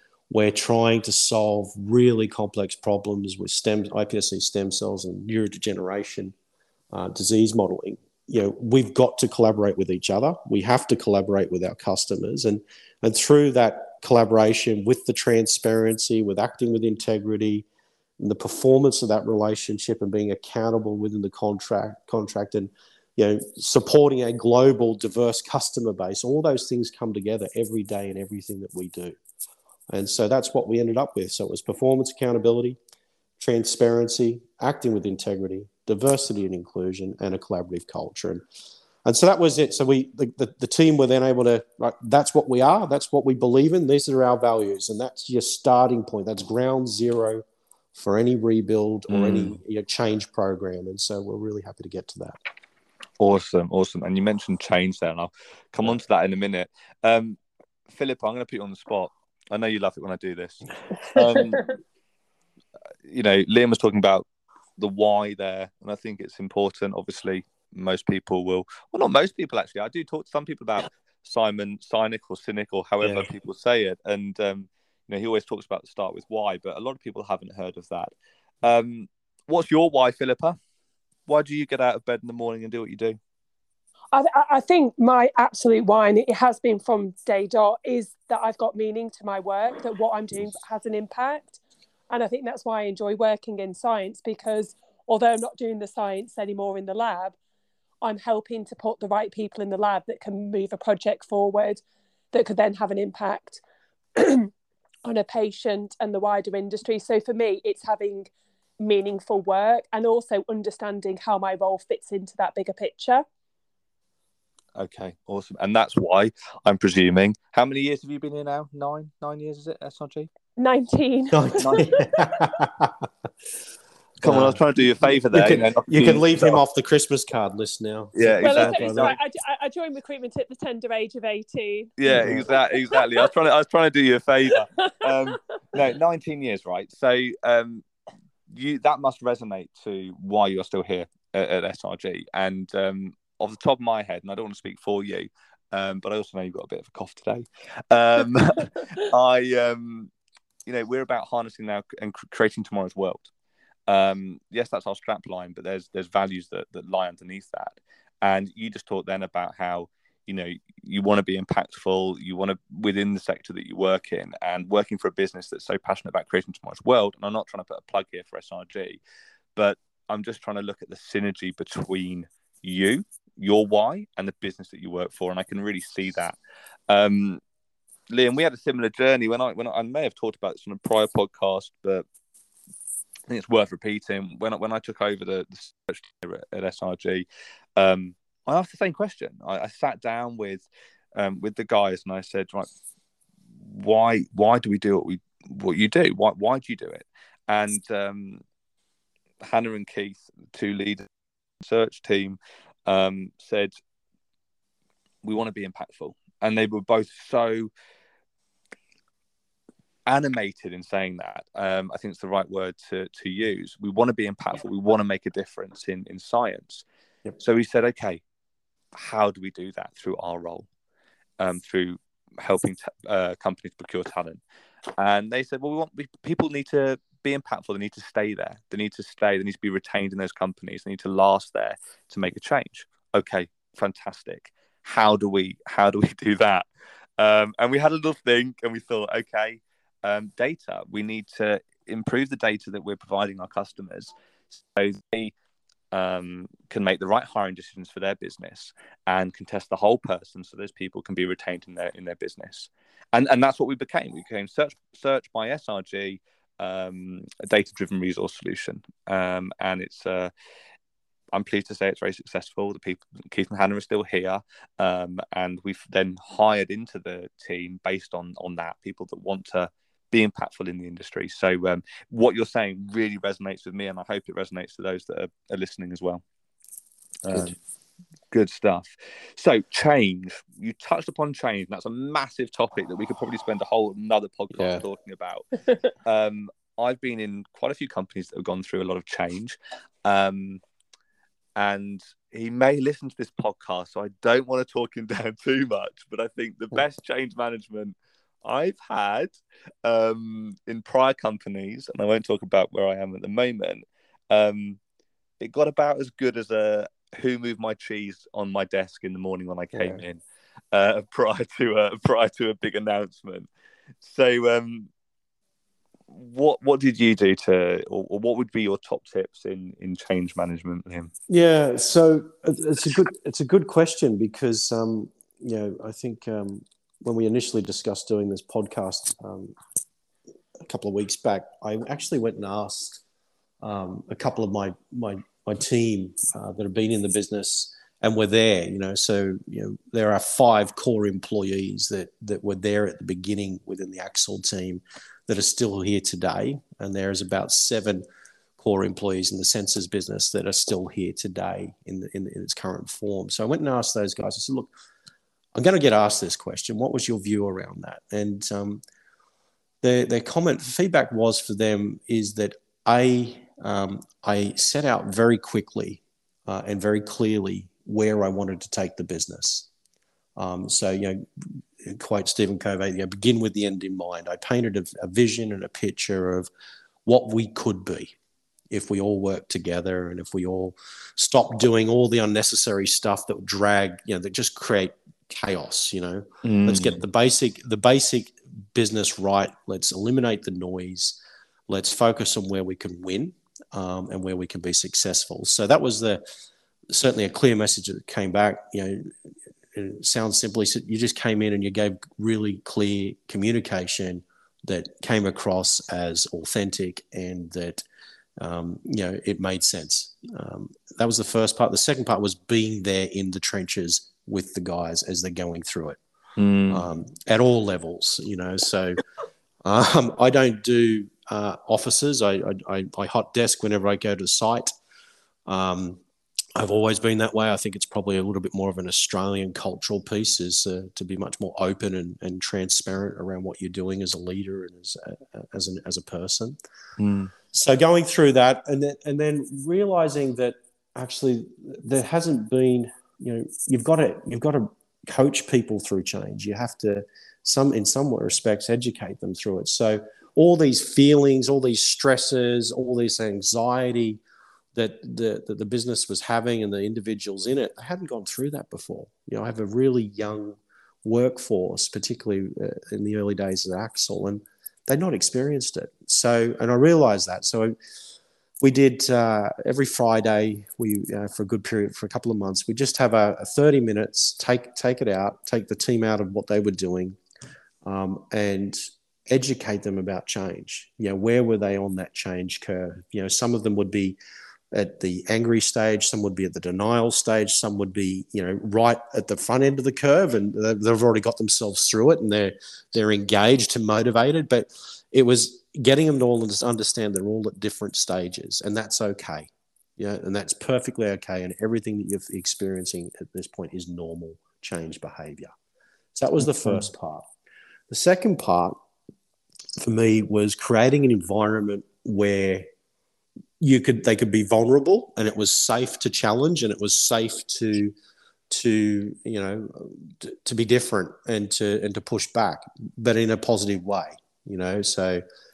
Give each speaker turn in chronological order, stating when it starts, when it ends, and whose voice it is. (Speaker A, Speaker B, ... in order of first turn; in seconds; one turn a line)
Speaker A: 0.3-6.3
Speaker A: 6.9-17.6
Speaker A: 18.2-29.2
Speaker A: 29.9-32.8
Speaker A: 33.4-38.4
Speaker A: 39.0-47.4
Speaker A: 47.9-52.4
Speaker B: 49.1-49.6
Speaker B: 53.2-61.6
Speaker C: 61.1-61.7
Speaker B: 63.0-64.3
Speaker B: 64.8-78.1
Speaker A: 73.0-73.3
Speaker B: 78.6-80.6
Speaker B: 81.3-83.2
Speaker C: 84.1-97.3
Speaker C: 98.0-101.8
Speaker C: 102.3-103.6
Speaker C: 104.2-104.5
Speaker C: 105.0-113.2
Speaker B: 114.8-120.3
Speaker C: 120.5-122.3
Speaker A: 121.3-123.1
Speaker B: 121.6-121.9
Speaker B: 124.2-126.6
Speaker A: 124.2-129.2
Speaker B: 128.1-129.2
Speaker C: 128.4-133.3
Speaker B: 132.0-137.8
Speaker A: 132.1-132.5
Speaker C: 134.5-135.4
Speaker B: 138.5-150.1
Speaker B: 150.7-153.3
Speaker B: 153.9-169.0
Speaker B: 169.6-176.3
Speaker B: 176.9-177.4
Speaker B: 178.1-182.0
Speaker B: 183.3-187.2
Speaker B: 187.8-192.7
Speaker B: 193.6-198.4
Speaker B: 199.4-201.1
Speaker B: 201.6-203.7
Speaker B: 205.2-207.7
Speaker B: 210.1-216.8
Speaker B: 217.4-218.2
Speaker B: 218.9-220.7
Speaker B: 221.4-224.4
Speaker B: 225.0-236.7
Speaker B: 237.2-245.3
Speaker B: 245.9-260.3
Speaker B: 261.3-276.2
Speaker A: 277.2-277.5
Speaker B: 277.3-277.6
Speaker B: 278.3-285.4
Speaker A: 284.5-284.9
Speaker B: 286.0-290.6
Speaker B: 291.6-304.8
Speaker B: 305.4-310.2
Speaker A: 309.7-310.0
Speaker B: 310.7-313.5
Speaker B: 314.0-314.9
Speaker B: 316.1-321.1
Speaker A: 321.3-329.5
Speaker A: 330.6-333.0
Speaker A: 333.6-348.0
Speaker A: 348.6-354.7
Speaker A: 355.5-358.8
Speaker A: 359.8-369.7
Speaker A: 370.4-376.5
Speaker A: 377.0-378.1
Speaker A: 378.7-391.2
Speaker B: 386.4-387.0
Speaker A: 391.7-396.2
Speaker A: 396.9-399.1
Speaker A: 399.7-407.8
Speaker A: 408.4-416.0
Speaker B: 416.4-416.9
Speaker A: 416.7-419.0
Speaker A: 419.6-424.7
Speaker A: 425.5-426.0
Speaker A: 426.6-436.6
Speaker B: 437.0-437.3
Speaker A: 437.5-454.2
Speaker A: 454.7-467.8
Speaker A: 468.6-477.2
Speaker A: 477.8-484.2
Speaker A: 484.7-505.5
Speaker A: 506.1-507.2
Speaker A: 507.9-508.8
Speaker A: 509.8-512.7
Speaker A: 513.6-517.9
Speaker A: 518.5-525.2